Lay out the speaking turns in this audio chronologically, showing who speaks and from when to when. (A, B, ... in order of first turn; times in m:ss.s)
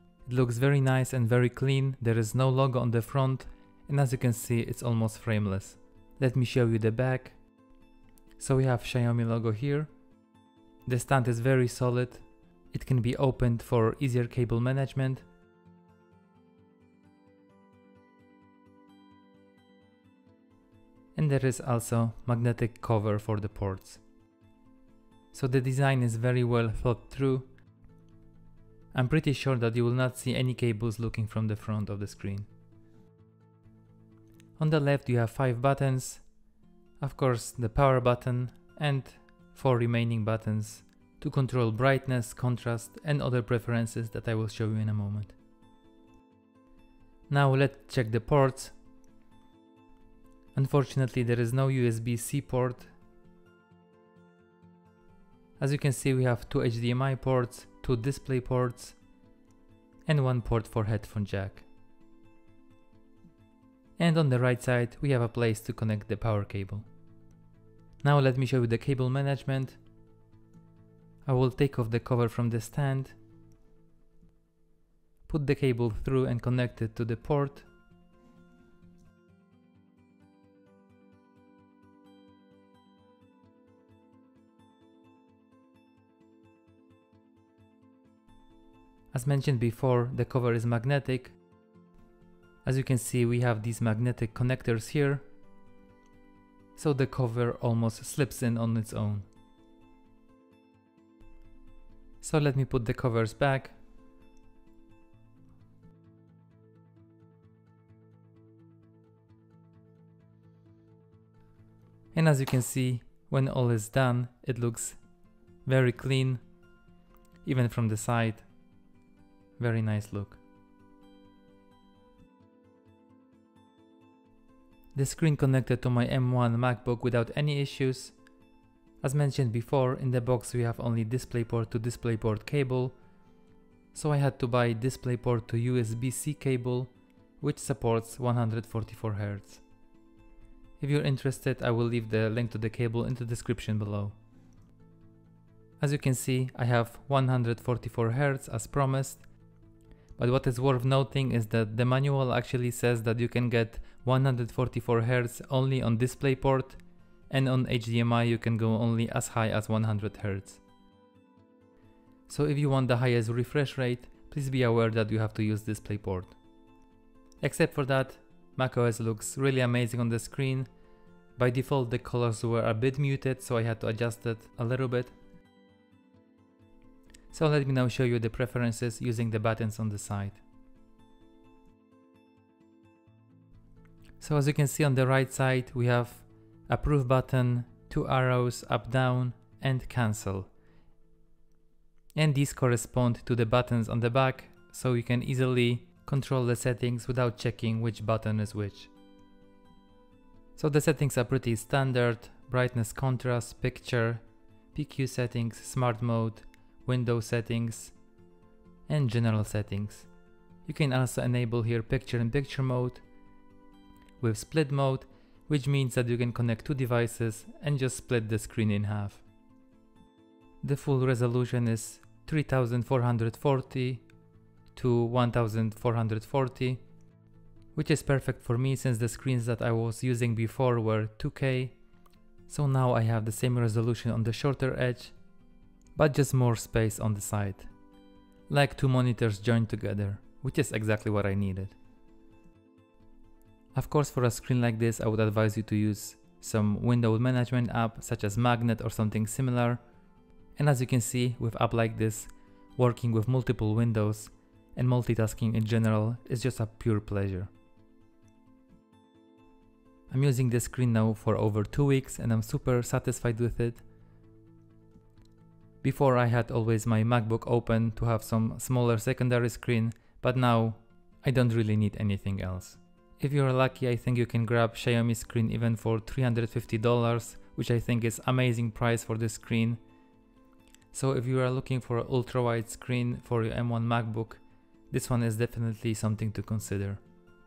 0:00.2-0:07.4 A
0:08.4-0:09.9 A
0:10.8-0:15.2 A
0:21.1-0:24.0 A
0:25.3-0:27.5 A
0:28.9-0:32.5 A
0:34.6-0:36.3 A
0:37.0-0:45.3 A
0:47.3-0:48.8 A
0:50.5-0:52.9 A
0:55.6-0:59.0 A
1:00.0-1:01.6 A
1:04.0-1:06.8 A
1:08.0-1:09.8 A
1:11.2-1:13.2 A
1:15.3-1:17.7 A
1:29.1-1:31.3 A
1:32.6-1:35.2 A
1:36.8-1:39.2 A
1:42.2-1:43.8 A
1:52.1-1:55.0 A
1:55.6-1:56.4 A
1:57.4-1:58.5 A
1:59.6-2:00.4 A
2:04.9-2:08.2 A
2:09.0-2:13.0 A
2:13.9-2:19.6 A
2:20.8-2:24.2 A
2:25.8-2:29.2 A
2:30.2-2:40.6 A
2:42.3-2:46.4 A
2:47.4-2:50.7 A
2:51.4-2:55.1 A
2:57.3-3:00.4 A
3:04.2-3:10.5 A
3:12.1-3:18.9 A
3:20.6-3:27.9 A
3:28.9-3:30.1 A
3:30.6-3:33.0 A
3:34.2-3:39.2 A
3:40.6-3:44.0 A
3:44.7-3:46.8 A
3:47.7-3:51.8 A
3:52.5-3:55.2 A
3:55.9-3:57.7 A
3:58.5-4:01.8 A
4:03.7-4:09.8 A
4:10.6-4:17.5 A
4:20.1-4:23.8 A
4:25.8-4:39.8 A
4:40.9-4:47.0 A